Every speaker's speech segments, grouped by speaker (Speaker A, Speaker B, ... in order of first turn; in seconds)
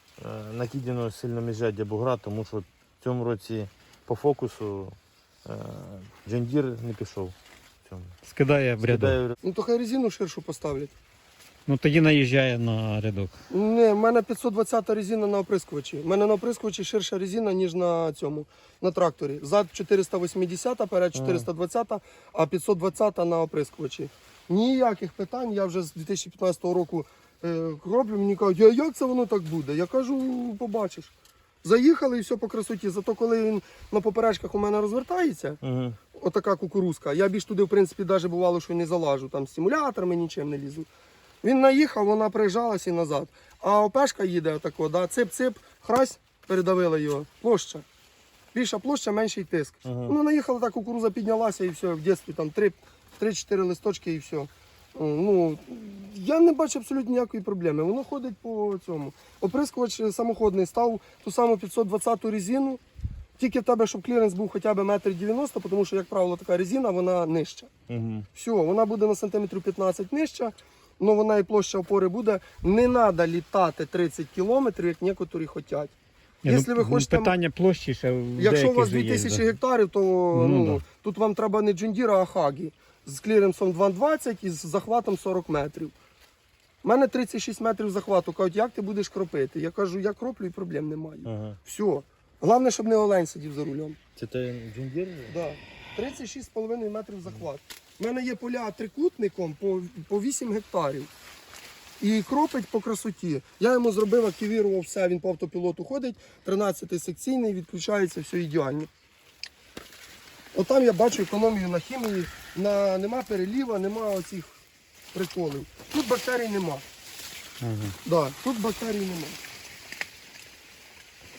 Speaker A: 0.2-7.3, 7.9-8.2, 8.8-9.3, 21.1-21.5, 35.6-36.0, 49.9-50.2, 67.9-68.3, 91.2-91.6, 94.2-95.3
Speaker B: 8.2-9.2, 11.7-13.3, 76.4-79.5, 80.3-80.8, 117.6-118.0
Speaker C: 9.4-10.9, 13.5-31.1, 31.6-35.6, 36.1-40.9, 41.4-47.9, 48.5-62.8, 63.4-67.7, 68.3-75.9, 76.5-77.3, 78.4-85.9, 86.8-94.0, 95.3-101.1, 102.0-108.9, 110.5-114.6, 115.1-116.8, 118.0-119.4